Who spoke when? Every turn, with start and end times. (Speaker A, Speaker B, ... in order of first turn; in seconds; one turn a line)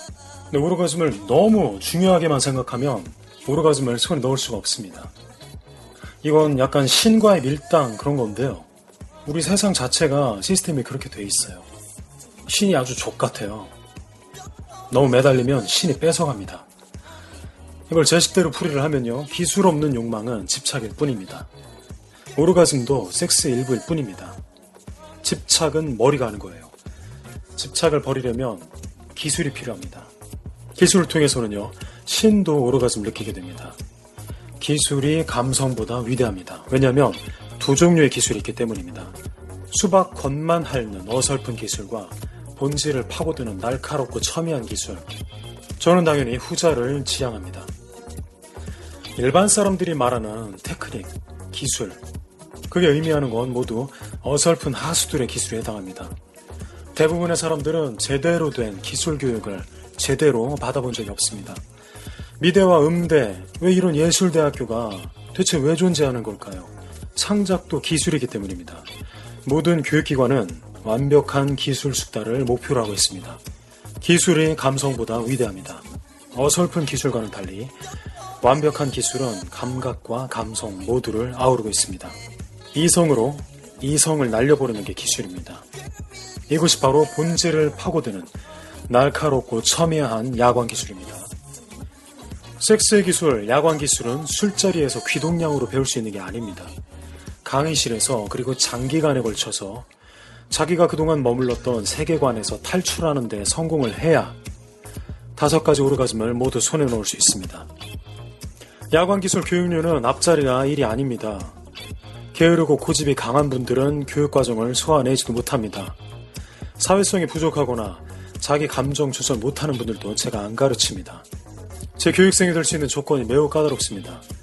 Speaker A: 0.5-5.1
Speaker A: 6.2-8.7
Speaker A: 9.2-11.7
Speaker A: 12.5-13.7
Speaker A: 14.9-16.7
Speaker A: 17.9-21.5
Speaker A: 22.4-24.4
Speaker A: 25.2-26.7
Speaker A: 27.6-30.1
Speaker A: 30.8-33.8
Speaker A: 34.6-39.2
Speaker A: 39.7-45.1
Speaker A: 45.8-47.7
Speaker A: 49.2-52.0
Speaker A: 52.7-56.1
Speaker A: 57.0-61.6
Speaker A: 62.4-68.9
Speaker A: 69.5-73.4
Speaker A: 74.0-77.8
Speaker A: 78.4-82.2
Speaker A: 82.7-85.7
Speaker A: 86.5-91.3
Speaker A: 92.6-96.7
Speaker A: 97.4-99.9
Speaker A: 100.5-104.4
Speaker A: 105.4-107.7
Speaker A: 108.9-111.6
Speaker A: 112.3-116.0
Speaker A: 116.8-121.2
Speaker A: 122.0-124.2